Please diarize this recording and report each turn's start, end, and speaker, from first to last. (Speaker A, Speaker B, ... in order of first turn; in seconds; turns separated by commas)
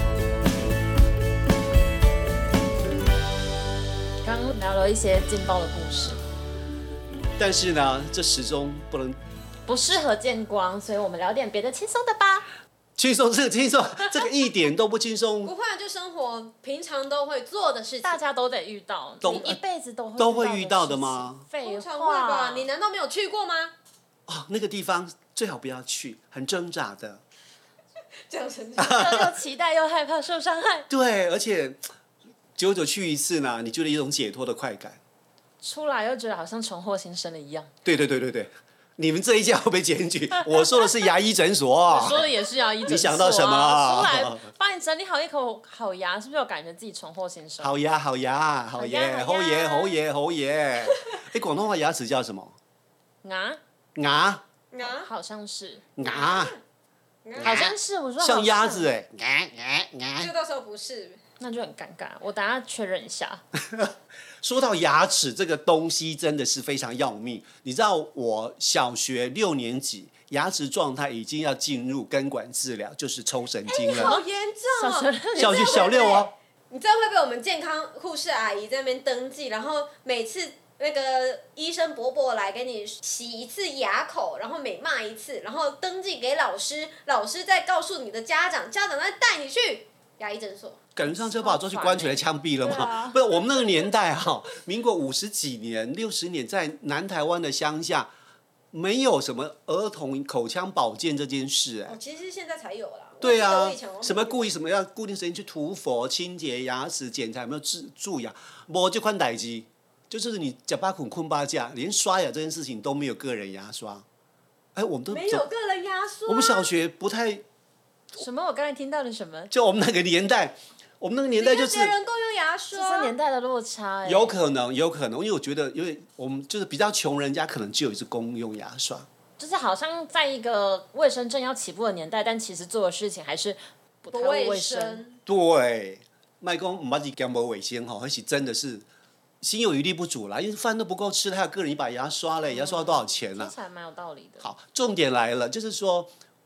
Speaker A: 4.2-6.2, Speaker B: 7.4-9.2, Speaker A: 9.7-12.5, Speaker B: 13.0-15.5, Speaker C: 15.4-18.2, Speaker A: 18.0-22.7, Speaker B: 19.2-19.6, Speaker C: 19.2-19.6, Speaker B: 20.2-21.4, Speaker C: 21.6-23.7, Speaker B: 24.3-27.2, Speaker C: 28.3-29.0, Speaker B: 28.8-29.3, Speaker A: 28.8-30.9, Speaker B: 30.9-31.8, Speaker B: 32.6-35.0, Speaker A: 35.6-37.7, Speaker B: 37.8-42.3, Speaker A: 41.9-47.7, Speaker B: 42.9-44.5, Speaker B: 47.6-52.5, Speaker A: 48.8-50.0, Speaker A: 53.2-53.6, Speaker B: 54.0-54.4, Speaker C: 54.7-55.1, Speaker A: 54.8-55.8, Speaker B: 56.0-56.5, Speaker C: 56.0-56.6, Speaker C: 57.2-57.6, Speaker B: 57.4-60.3, Speaker A: 57.4-58.9, Speaker C: 60.2-61.2, Speaker A: 61.4-63.4, Speaker B: 64.4-74.2, Speaker A: 73.7-76.2, Speaker C: 73.8-90.8, Speaker B: 75.3-76.3, Speaker B: 91.0-98.1, Speaker A: 91.0-93.2, Speaker B: 98.7-102.0, Speaker C: 101.9-104.5, Speaker B: 103.2-114.0, Speaker B: 114.7-115.5, Speaker C: 115.1-116.7, Speaker B: 116.3-117.4, Speaker A: 118.1-119.5, Speaker B: 119.5-121.9, Speaker C: 121.3-123.1, Speaker A: 122.7-124.4, Speaker B: 124.0-129.1, Speaker A: 129.4-135.0, Speaker C: 134.1-135.2, Speaker B: 135.2-138.8, Speaker B: 139.4-143.5, Speaker A: 142.5-144.5, Speaker B: 144.4-146.1